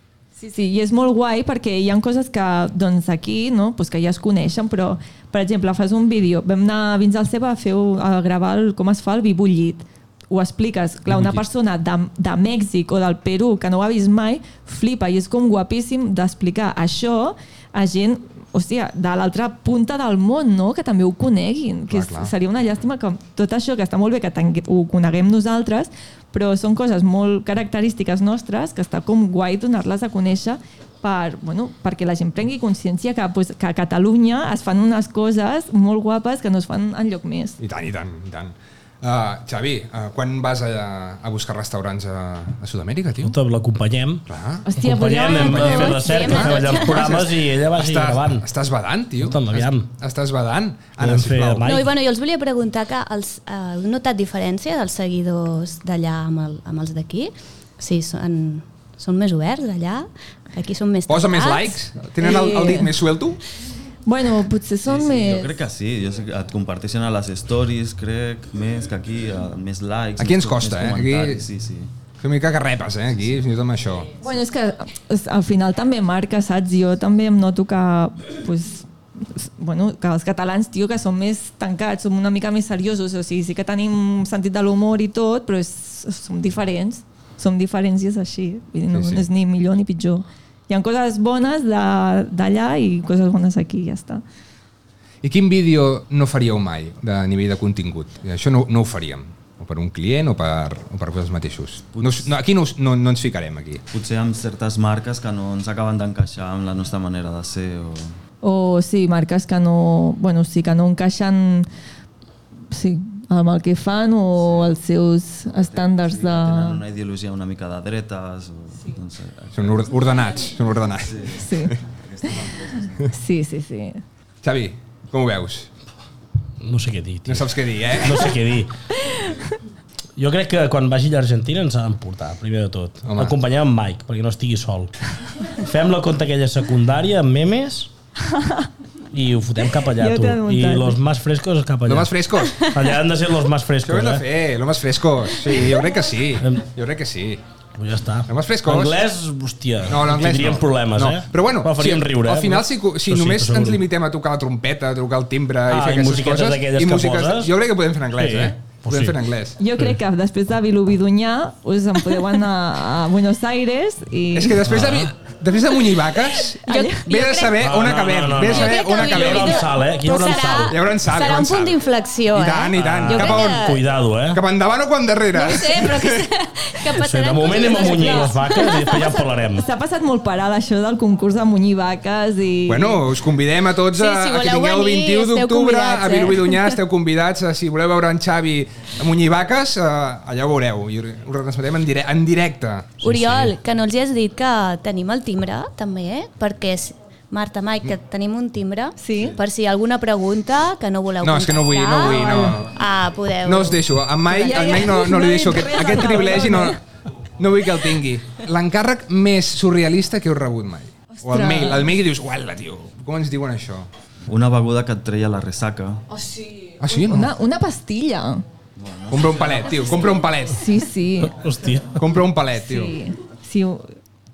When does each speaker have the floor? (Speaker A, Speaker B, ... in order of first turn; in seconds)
Speaker A: 0.4-37.6, 44.6-46.5, 62.2-62.9, 64.0-65.5, 74.2-94.2, 108.4-111.7, 112.7-116.8, 121.3-121.7, 123.1-124.0, 129.1-129.3, 138.3-138.7, 139.9-141.0, 159.6-164.7, 166.7-167.1, 177.4-178.9, 179.5-183.0, 199.0-199.3, 202.1-202.5, 204.3-206.8, 211.2-211.9, 216.1-218.4, 220.5-221.4, 222.6-223.9
Speaker B: 11.1-11.4, 21.9-22.3, 37.6-43.4, 44.3-44.6, 45.3-51.7, 61.1-63.4, 70.2-71.4, 72.2-74.1, 88.9-89.2, 95.2-103.8, 119.5-121.2, 124.4-125.7, 127.3-128.3, 133.0-133.3, 141.9-142.8, 143.8-147.4, 148.3-149.0, 149.9-159.6, 164.3-169.7, 170.7-171.8, 172.3-173.7, 174.3-176.2, 182.7-193.5, 201.2-202.8, 203.4-206.8, 207.4-213.9, 216.8-217.3, 219.1-220.7, 221.9-222.9
Speaker C: 43.2-44.2, 44.8-48.5, 49.2-49.9, 51.0-51.9, 126.6-128.7, 130.2-134.9, 135.5-137.9, 139.1-144.2, 146.4-146.6, 147.8-153.8, 155.7-157.5, 158.2-159.2, 164.7-165.1, 167.6-170.8, 172.8-174.4, 176.9-179.7, 221.2-222.0
Speaker D: 45.3-47.2, 51.6-61.8, 166.5-167.6, 168.4-173.8, 175.3-179.2, 183.9-186.8, 193.0-203.8
Speaker E: 64.8-71.9, 101.9-102.3, 103.9-108.2, 114.4-114.7, 115.5-119.9, 121.0-123.1, 214.3-216.0, 218.8-220.3